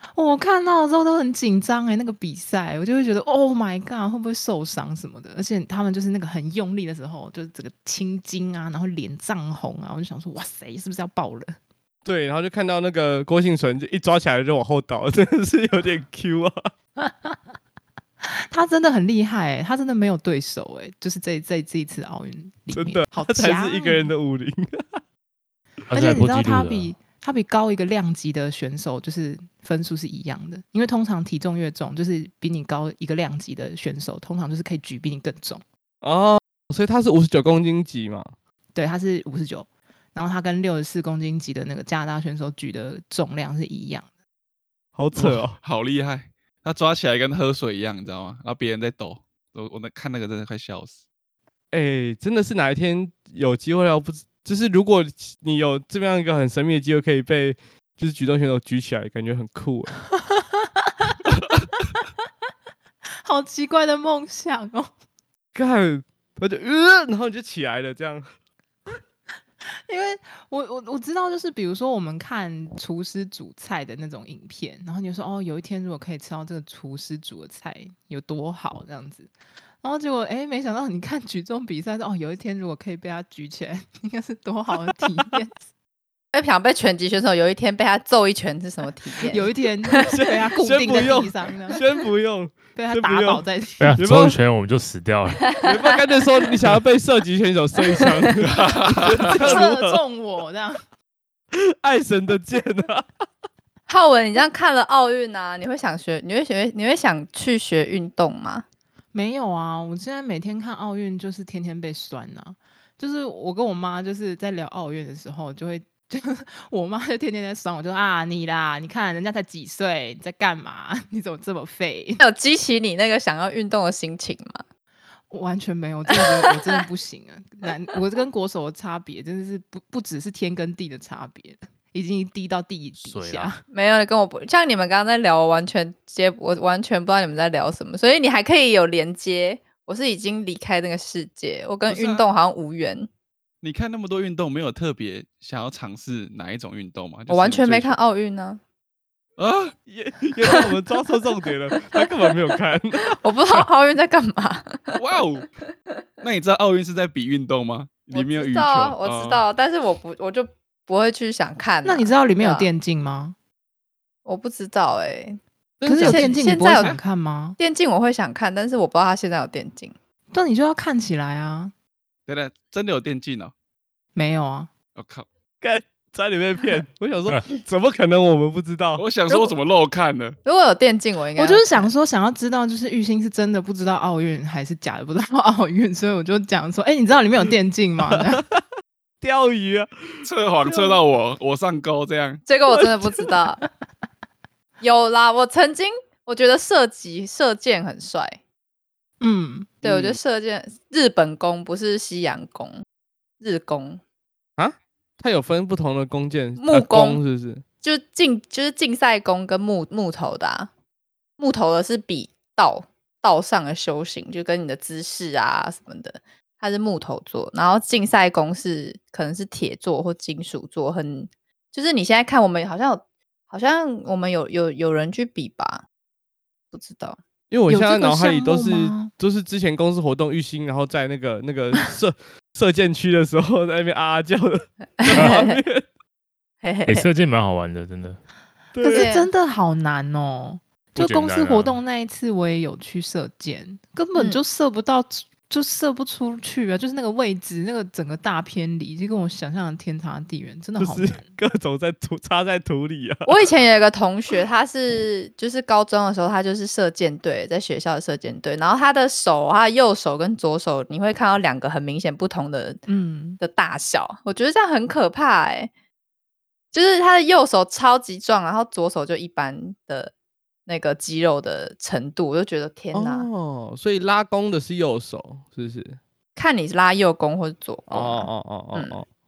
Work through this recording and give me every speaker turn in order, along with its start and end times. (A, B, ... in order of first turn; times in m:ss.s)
0:00.1-0:11.5 A
0:12.0-0:16.7 B
0:17.0-0:17.4 A
0:18.2-0:24.1 A
0:22.7-0:25.0 B
0:25.9-0:26.9 C
0:25.9-0:35.6 A
0:36.0-0:38.3 B
0:38.7-0:44.1 A
0:44.9-0:45.6 B
0:45.2-0:51.0 D
0:51.7-0:59.9 B
1:00.3-1:01.2 A
1:03.2-1:04.9 A
1:05.5-1:08.3 B
1:09.8-1:19.3 A
1:19.8-1:25.6 A
1:26.3-1:30.0 E
1:29.3-1:31.8 A
1:29.9-1:33.4 B
1:32.8-1:34.0 A
1:33.8-1:35.6 C
1:34.0-1:34.4 B
1:35.6-1:40.0 B
1:38.4-1:39.6 D
1:39.3-1:40.8 A
1:41.5-1:43.1 B
1:43.9-1:48.6 E
1:49.1-2:02.2 A
2:02.2-2:04.6 E
2:05.3-2:13.6 A
2:06.1-2:06.8 E
2:13.0-2:13.6 C
2:13.7-2:23.1 E
2:21.9-2:22.2 D
2:23.6-2:28.0 D
2:27.3-2:28.6 E
2:29.4-2:29.7 D
2:29.9-2:33.2 B
2:33.1-2:35.2 E
2:35.0-2:35.5 D
2:36.2-2:39.4 D
2:38.1-2:42.7 E
2:41.8-2:43.4 A
2:44.2-2:45.4 E
2:45.8-2:46.5 B
2:45.8-2:47.6 A
2:46.0-2:47.0 E
2:47.6-2:49.9 E
2:50.3-2:51.7 A
2:52.3-2:53.5 D
2:54.2-2:54.7 A
2:55.0-2:55.2 D
2:55.6-2:59.1 B
2:59.0-3:00.4 D
3:00.4-3:01.9 E
3:01.4-3:08.4 A
3:08.1-3:08.6 B
3:09.2-3:09.9 B
3:10.2-3:12.4 D
3:12.4-3:13.6 E
3:14.8-3:18.4 E
3:19.2-3:19.8 A
3:19.8-3:22.8 E
3:19.8-3:20.2 B
3:23.4-3:24.0 E
3:24.6-3:27.6 B
3:26.6-3:27.2 E
3:27.8-3:30.7 E
3:31.4-3:45.8 E
3:46.7-3:47.2 E
3:47.5-3:55.8 B
3:47.7-3:49.1 A
3:55.0-3:55.5 E
3:55.1-3:55.4 C
3:56.6-3:57.0 E
3:56.8-3:58.2 C
3:58.7-3:59.1 B
3:58.8-4:11.3 A
3:58.8-3:59.3 E
4:00.9-4:01.8 C
4:10.8-4:13.5 B
4:13.2-4:22.8 E
4:22.9-4:23.4 A
4:23.4-4:25.7 E
4:26.7-4:30.1 E
4:30.7-4:33.3 E
4:32.9-4:36.0 B
4:36.4-4:39.0 E
4:37.9-4:39.0 B